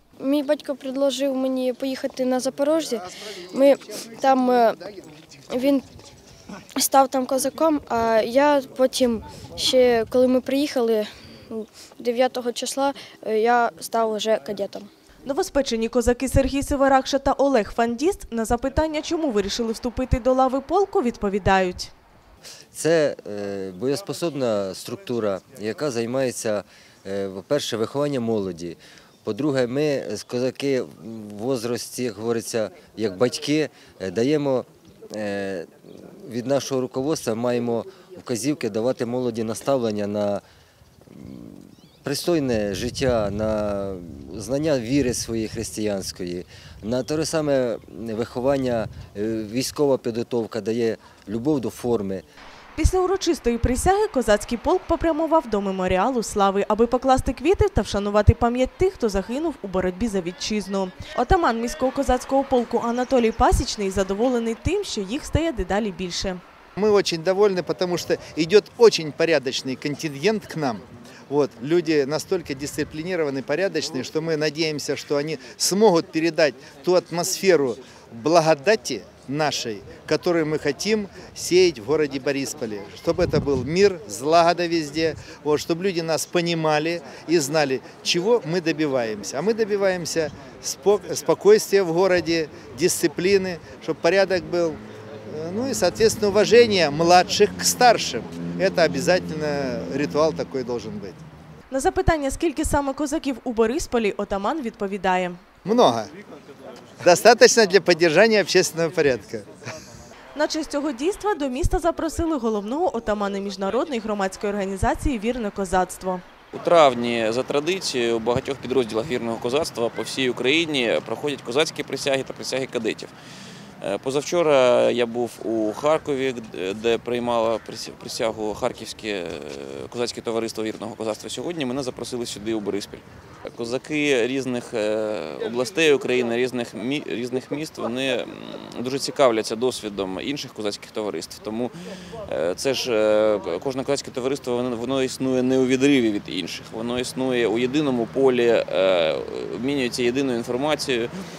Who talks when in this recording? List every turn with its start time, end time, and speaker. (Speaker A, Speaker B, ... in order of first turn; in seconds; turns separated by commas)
Speaker A: 0.2-4.9, Speaker A: 5.5-5.8, Speaker A: 6.8-14.9, Speaker B: 15.2-21.9, Speaker C: 22.7-40.4, Speaker C: 41.1-52.2, Speaker B: 52.8-66.4, Speaker D: 66.8-101.2, Speaker B: 101.7-105.4, Speaker D: 105.7-106.1, Speaker D: 107.0-109.5, Speaker B: 110.3-116.2, Speaker E: 116.5-123.1, Speaker E: 123.8-141.7, Speaker E: 142.2-151.1